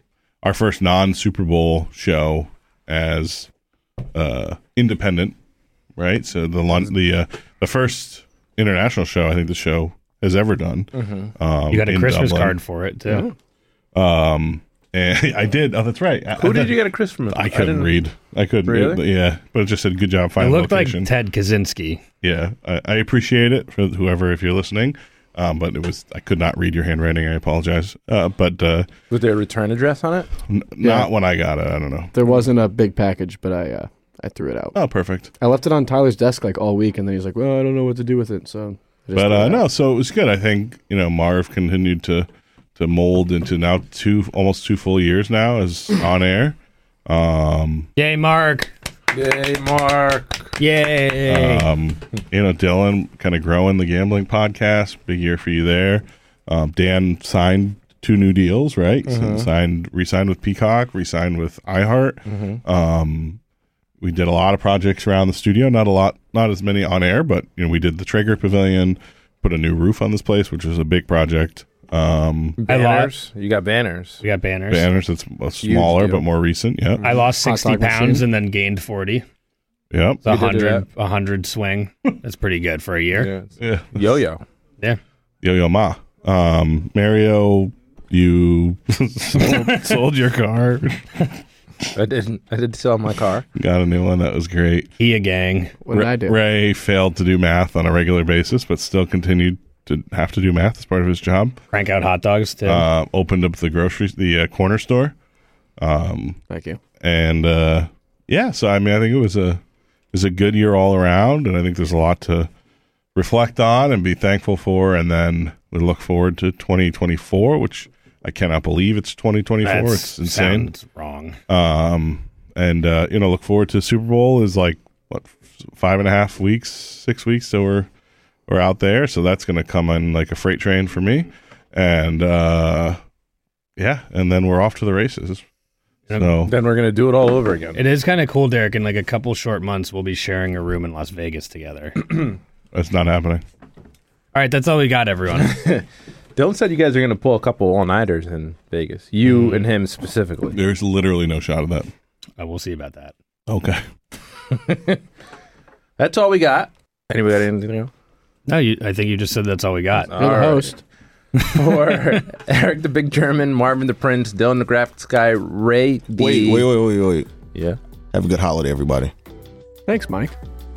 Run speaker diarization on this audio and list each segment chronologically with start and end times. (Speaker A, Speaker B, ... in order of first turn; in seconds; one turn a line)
Speaker A: 0.4-3.5
Speaker A: 4.2-5.4
Speaker A: 6.0-12.6
Speaker B: 10.9-11.3
Speaker C: 11.7-13.3
Speaker A: 13.9-21.1
Speaker B: 16.4-18.0
Speaker B: 18.7-19.0
Speaker C: 20.4-22.0
Speaker A: 22.2-28.9
Speaker B: 29.1-30.3
Speaker A: 30.5-32.1
Speaker D: 30.8-31.1
Speaker D: 32.1-34.8
Speaker A: 34.7-35.3
Speaker D: 35.4-39.7
Speaker A: 39.1-47.9
Speaker C: 48.0-48.7
Speaker B: 49.1-50.5
Speaker C: 50.6-51.7
Speaker A: 51.3-63.4
Speaker B: 59.1-59.5
Speaker B: 62.3-62.6
Speaker A: 64.0-72.6
Speaker B: 72.6-74.2
Speaker C: 72.7-73.1
Speaker C: 74.2-74.9
Speaker A: 74.7-77.0
Speaker B: 75.6-76.2
Speaker C: 77.0-79.2
Speaker D: 77.0-78.3
Speaker A: 79.9-80.3
Speaker C: 80.2-83.3
Speaker B: 80.3-80.8
Speaker B: 83.2-84.4
Speaker A: 83.6-84.1
Speaker A: 85.4-91.3
Speaker B: 92.0-93.5
Speaker A: 93.6-94.9
Speaker C: 95.0-95.8
Speaker D: 95.8-96.5
Speaker A: 95.9-101.6
Speaker C: 101.7-102.9
Speaker A: 102.7-105.2
Speaker A: 105.8-106.4
Speaker D: 106.5-106.8
Speaker A: 107.0-109.6
Speaker A: 110.1-112.5
Speaker A: 113.2-120.7
Speaker C: 119.6-121.4
Speaker A: 121.5-127.9
Speaker A: 128.5-133.0
Speaker A: 133.8-135.4
Speaker A: 136.1-136.6
Speaker B: 136.4-137.8
Speaker C: 137.7-142.1
Speaker A: 142.7-143.4
Speaker C: 144.3-145.6
Speaker B: 145.3-150.6
Speaker C: 149.3-149.6
Speaker A: 150.5-151.9
Speaker C: 152.4-153.1
Speaker A: 153.5-153.8
Speaker B: 154.5-155.0
Speaker B: 156.0-157.9
Speaker C: 158.5-160.2
Speaker B: 160.1-160.8
Speaker D: 160.2-160.8
Speaker B: 161.4-166.7
Speaker E: 166.2-167.3
Speaker B: 167.5-167.8
Speaker E: 168.1-169.1
Speaker D: 169.9-170.4